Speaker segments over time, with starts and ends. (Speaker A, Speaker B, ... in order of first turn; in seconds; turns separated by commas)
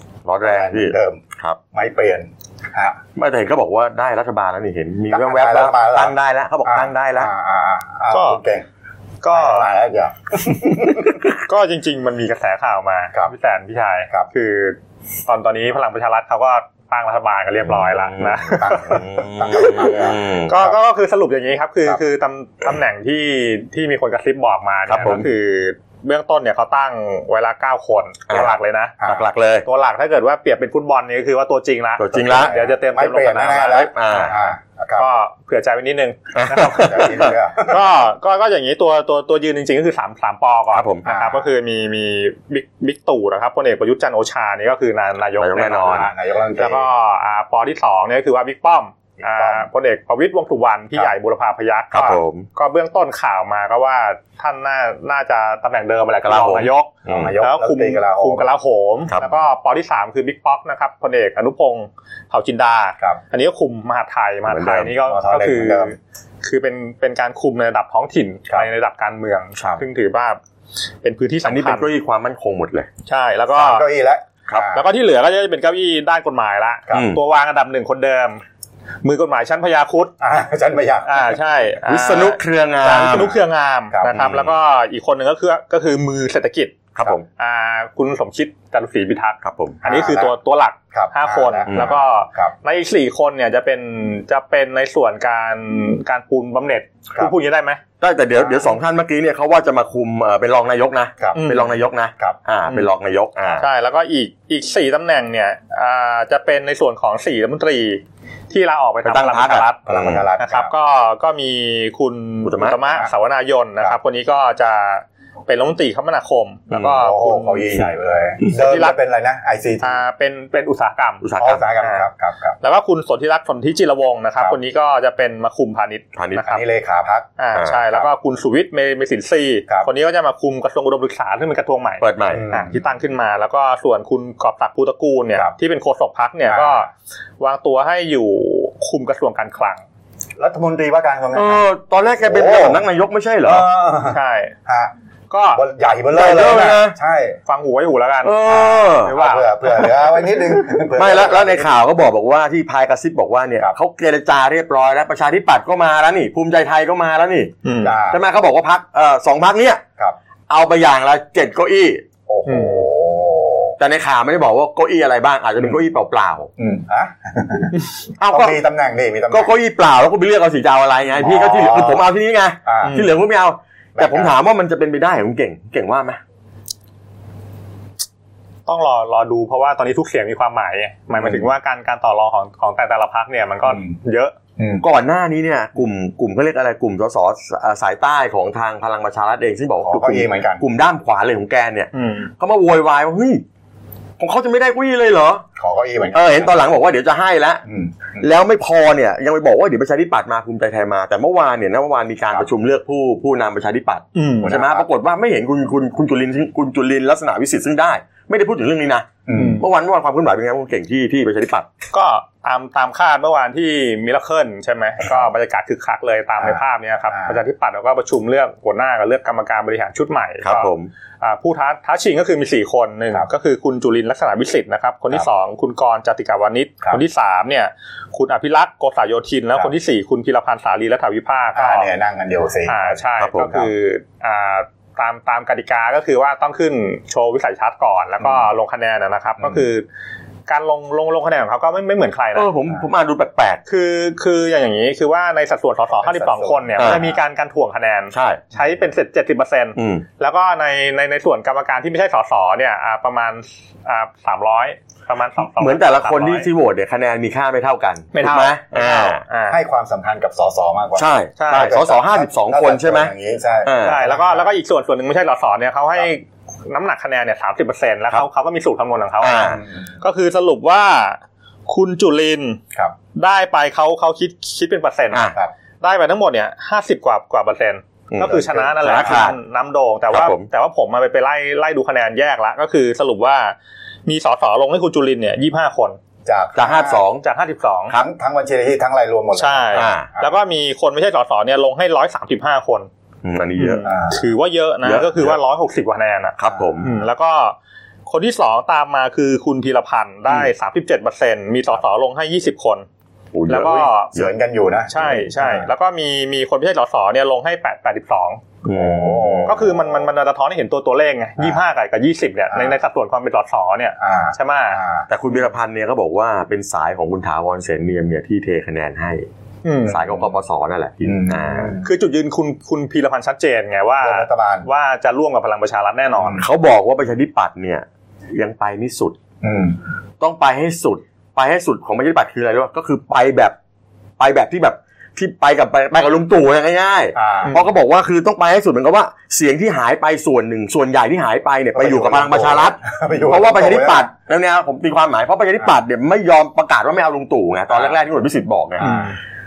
Speaker A: 0.2-1.6, Speaker B: 0.4-1.2, Speaker B: 1.7-3.0, Speaker A: 3.1-7.3, Speaker B: 5.1-6.1, Speaker B: 6.6-8.6, Speaker C: 8.1-8.4, Speaker C: 9.2-9.7, Speaker B: 9.3-11.2, Speaker C: 11.4-28.9, Speaker A: 17.6-20.6, Speaker B: 18.6-20.8, Speaker A: 24.9-25.3, Speaker A: 28.3-29.6, Speaker C: 29.6-33.9, Speaker A: 32.0-32.5, Speaker B: 32.1-35.1, Speaker A: 33.7-34.3, Speaker C: 35.0-70.4, Speaker A: 36.3-37.3, Speaker B: 36.7-37.8, Speaker A: 40.7-41.0, Speaker B: 41.0-41.4, Speaker A: 45.4-46.1, Speaker B: 45.8-46.9, Speaker B: 49.2-49.7, Speaker A: 51.9-52.5, Speaker A: 56.2-57.3, Speaker B: 57.1-58.5, Speaker A: 64.5-64.9, Speaker B: 65.0-65.9, Speaker C: 71.0-71.9, Speaker A: 71.4-72.9, Speaker C: 73.0-73.8, Speaker B: 73.5-74.8, Speaker C: 74.7-78.4, Speaker A: 76.9-77.2, Speaker C: 79.0-80.1, Speaker B: 80.2-81.4, Speaker C: 81.1-86.7, Speaker A: 81.9-83.3, Speaker B: 83.9-84.4, Speaker A: 84.1-84.5, Speaker A: 86.9-87.2, Speaker C: 87.4-97.8, Speaker A: 89.4-89.8, Speaker B: 89.8-90.3, Speaker B: 90.9-92.5, Speaker A: 91.7-92.0, Speaker A: 98.0-103.7, Speaker B: 98.4-98.7, Speaker C: 101.3-101.7, Speaker C: 103.5-109.8, Speaker A: 109.0-110.2, Speaker B: 109.9-110.7, Speaker C: 110.4-117.6, Speaker A: 112.4-112.8, Speaker A: 116.7-117.0, Speaker B: 116.9-120.0, Speaker C: 118.5-118.9, Speaker C: 119.8-121.2, Speaker A: 121.2-121.6, Speaker B: 121.4-122.6, Speaker C: 121.8-122.1, Speaker C: 122.6-126.6, Speaker A: 126.1-126.4, Speaker B: 126.4-127.3, Speaker C: 127.4-136.9, Speaker A: 132.0-132.4, Speaker B: 132.3-132.8, Speaker B: 136.5-136.8, Speaker C: 137.4-139.8, Speaker B: 140.4-141.7, Speaker A: 141.3-143.7, Speaker B: 142.2-142.8, Speaker B: 143.4-144.9, Speaker C: 144.1-144.5, Speaker C: 145.3-145.6, Speaker B: 145.5-147.4, Speaker A: 146.1-146.9, Speaker C: 147.5-148.4, Speaker A: 148.2-149.2, Speaker B: 148.4-151.8, Speaker C: 149.0-149.9, Speaker A: 150.9-157.5, Speaker C: 157.6-157.9, Speaker B: 157.8-158.2, Speaker A: 158.1-159.8, Speaker A: 160.5-162.0, Speaker B: 162.3-163.8, Speaker C: 162.5-162.8, Speaker A: 163.8-166.5, Speaker B: 166.6-169.5, Speaker A: 168.2-168.6, Speaker A: 169.3-176.2, Speaker B: 171.2-172.1, Speaker B: 172.7-173.0, Speaker C: 172.8-173.1, Speaker B: 173.9-174.3, Speaker C: 178.7-184.3, Speaker B: 181.2-181.4, Speaker B: 183.6-183.9, Speaker B: 184.6-184.8, Speaker A: 184.8-193.4, Speaker B: 189.8-190.6, Speaker C: 191.9-192.3, Speaker A: 194.2-195.4, Speaker B: 195.6-196.6, Speaker A: 196.1-197.6, Speaker B: 197.7-198.3, Speaker A: 198.2-211.7, Speaker C: 204.1-204.5, Speaker B: 204.4-204.8, Speaker B: 209.3-209.6, Speaker C: 209.3-209.6, Speaker C: 211.9-231.9, Speaker B: 217.1-217.4, Speaker A: 220.4-220.9, Speaker B: 231.6-233.7, Speaker C: 232.7-239.9, Speaker A: 233.2-233.5, Speaker C: 240.5-242.5, Speaker A: 242.3-243.6, Speaker C: 243.7-256.5, Speaker B: 246.0-247.2, Speaker A: 248.1-248.4, Speaker A: 249.8-250.1, Speaker A: 255.6-259.2, Speaker C: 258.1-259.6, Speaker B: 259.5-264.5, Speaker A: 260.9-263.1, Speaker C: 261.4-261.8, Speaker A: 263.6-264.0, Speaker C: 263.8-272.6, Speaker A: 269.2-269.6, Speaker B: 269.5-269.9, Speaker C: 273.1-286.0, Speaker A: 275.1-275.4, Speaker A: 278.1-279.4, Speaker B: 278.2-279.1, Speaker A: 280.1-280.5, Speaker B: 286.2-287.0, Speaker A: 286.6-287.2, Speaker C: 287.2-287.9, Speaker B: 287.9-290.3, Speaker C: 289.3-292.9, Speaker A: 289.7-290.1, Speaker A: 293.2-293.8, Speaker C: 293.6-297.6, Speaker B: 293.8-294.2, Speaker A: 294.8-295.4, Speaker A: 296.4-296.9, Speaker C: 298.1-302.9, Speaker A: 303.3-304.3, Speaker C: 303.5-304.1, Speaker B: 304.1-305.7, Speaker C: 304.9-308.4, Speaker A: 308.6-309.7, Speaker B: 308.7-310.0, Speaker C: 309.5-314.8, Speaker B: 314.0-315.1, Speaker A: 315.1-319.3, Speaker C: 319.6-320.0, Speaker B: 319.9-320.2, Speaker A: 319.9-321.8, Speaker B: 321.1-321.9, Speaker C: 321.8-326.4, Speaker B: 324.0-324.7, Speaker B: 326.1-326.4, Speaker A: 326.4-329.2, Speaker B: 329.4-329.8, Speaker A: 330.2-333.6, Speaker A: 334.2-349.0, Speaker B: 337.1-337.6, Speaker B: 341.8-344.1, Speaker B: 348.8-349.1, Speaker C: 348.8-349.1